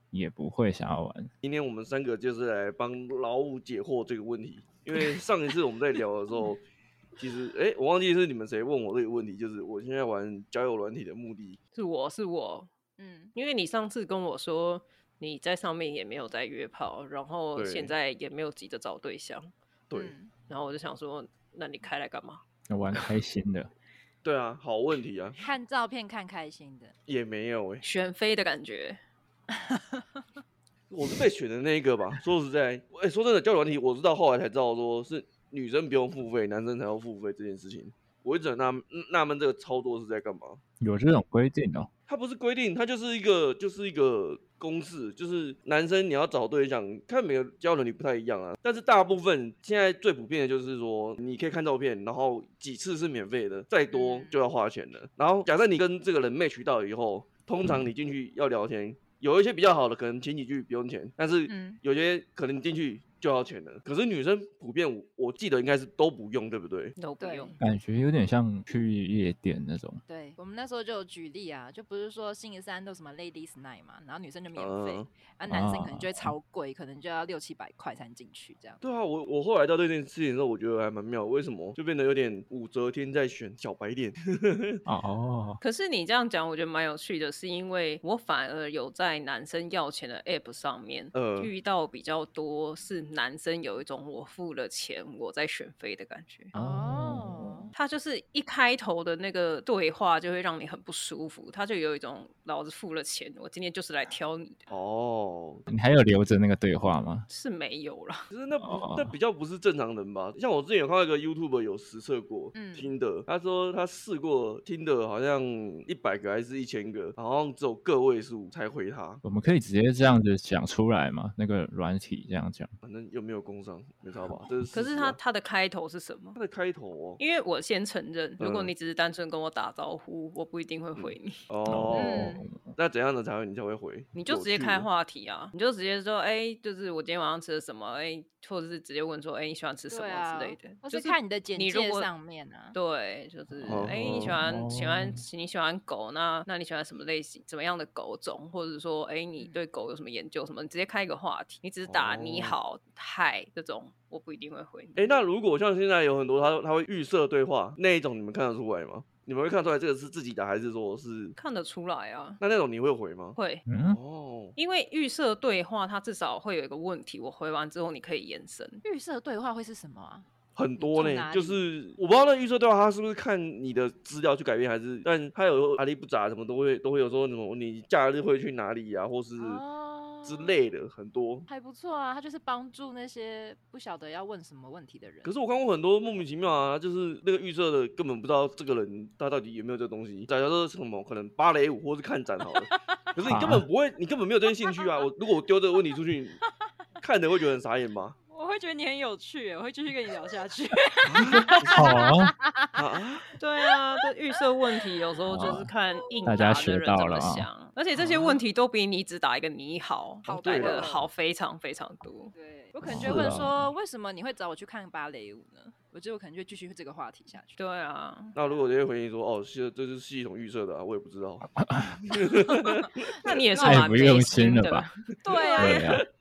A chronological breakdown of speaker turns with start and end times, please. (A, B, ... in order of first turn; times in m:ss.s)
0:00.1-0:01.3 A
0:01.4-0:06.6 B
0:07.2-0:11.6 B
0:11.7-0:12.7 C
0:13.0-0:13.3 D
0:13.3-0:19.5 C
0:17.6-0:17.9 B
0:19.9-0:20.3 D
0:20.5-0:22.4 C
0:22.7-0:23.7 A
0:24.2-0:25.4 B
0:25.4-0:26.9 D
0:27.1-0:27.8 B
0:27.8-0:29.0 C
0:29.6-0:30.0 D
0:30.9-0:40.6 B
0:40.8-0:41.9 A
0:42.1-1:06.9 B
0:53.9-0:54.4 D
1:01.5-1:01.8 D
1:07.0-1:07.6 C
1:07.2-1:07.5 D
1:07.6-1:10.0 A
1:10.1-1:18.8 D
1:14.6-1:15.1 B
1:15.5-1:16.3 A
1:18.8-1:24.8 B
1:24.8-1:25.6 A
1:25.6-1:36.5 C
1:31.1-1:31.5 B
1:36.5-1:37.7 D
1:36.5-1:37.6 A
1:37.7-1:44.6 C
1:44.7-1:45.7 B
1:45.7-1:47.3 A
1:47.3-1:48.3 C
1:48.3-1:59.2 B
1:48.6-1:49.1 A
1:52.5-1:52.9 D
1:59.2-2:02.7 A
2:02.8-2:05.2 B
2:04.7-2:06.4 C
2:06.3-2:07.2 B
2:07.2-2:11.4 C
2:08.4-2:08.7 B
2:11.0-2:14.9 B
2:11.6-2:12.7 A
2:11.9-2:12.4 D
2:14.1-2:22.1 C
2:19.9-2:22.8 D
2:22.7-2:35.2 C
2:23.6-2:25.2 A
2:23.6-2:24.3 B
2:31.9-2:32.6 B
2:35.0-2:41.4 B
2:41.4-2:42.4 C
2:42.4-2:43.4 B
2:43.4-2:43.6 C
2:43.6-2:44.0 A
2:43.9-2:44.5 B
2:44.6-2:48.8 C
2:48.8-2:50.2 D
2:50.6-2:59.6 B
2:50.8-2:51.6 D
2:59.4-3:00.6 D
3:00.2-3:01.5 B
3:01.5-3:05.3 D
3:05.2-3:16.4 B
3:13.2-3:13.6 A
3:17.0-3:18.2 B
3:18.3-3:22.8 D
3:21.0-3:21.8 B
3:21.6-3:22.3 A
3:22.8-3:23.3 B
3:23.4-3:32.3 C
3:25.2-3:25.7 A
3:26.1-3:26.4 D
3:26.2-3:27.5 A
3:30.2-3:31.0 D
3:30.3-3:31.0 B
3:32.3-3:37.6 D
3:32.9-3:33.7 A
3:37.6-3:38.3 C
3:38.3-3:43.1 B
3:41.6-3:42.0 A
3:43.2-3:45.9 C
3:43.6-3:44.9 A
3:45.2-3:45.9 D
3:45.6-3:46.0 A